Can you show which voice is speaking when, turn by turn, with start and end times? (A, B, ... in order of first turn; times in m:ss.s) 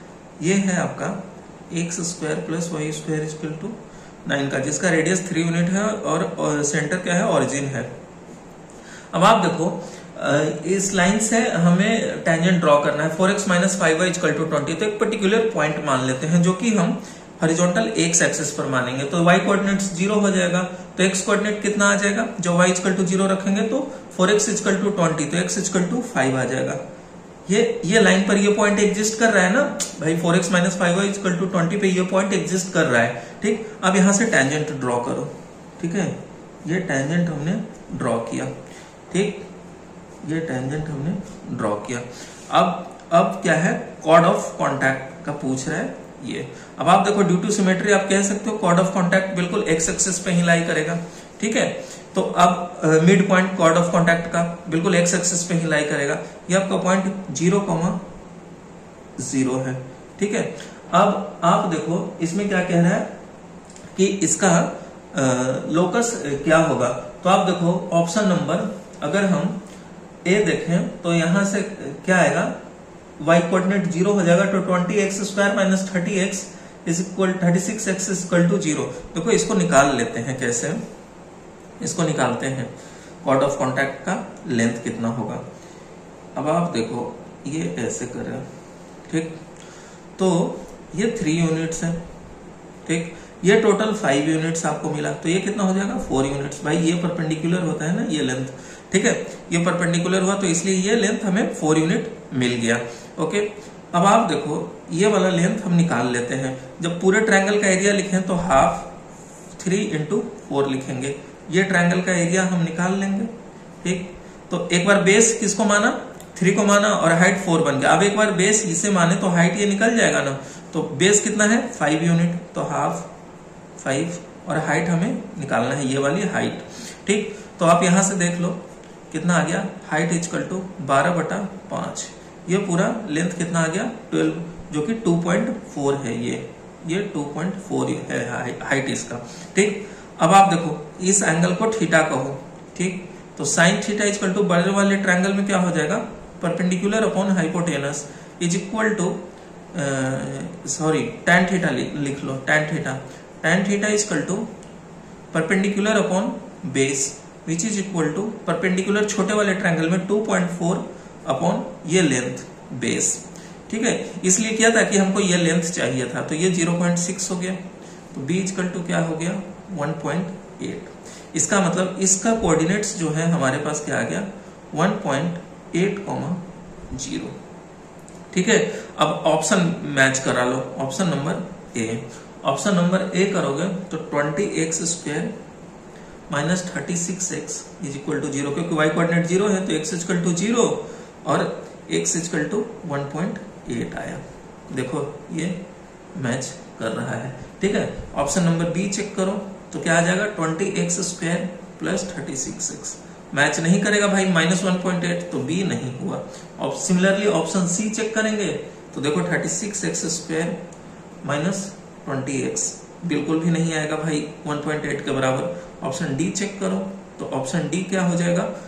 0:00.4-0:07.9 A
0:09.1-0:26.8 A
0:27.4-0:38.6 A
0:39.1-0:39.4 A
0:40.2-0:58.0 A
0:59.2-1:03.1 A
1:03.9-1:09.6 A
1:10.2-1:12.5 A
1:13.2-1:20.8 A
1:21.8-1:22.7 A
1:23.2-1:25.4 A
1:26.3-1:28.5 A
1:29.1-1:29.4 A
1:30.2-1:32.0 A
1:32.8-1:48.9 A
1:49.6-1:53.3 A
1:53.8-2:03.1 A
2:03.8-2:08.6 A
2:09.1-2:29.2 A
2:29.7-2:34.5 A
2:35.3-2:57.4 A
2:58.3-3:05.3 A
3:06.3-3:15.6 A
3:16.1-3:30.6 A
3:31.2-3:38.5 A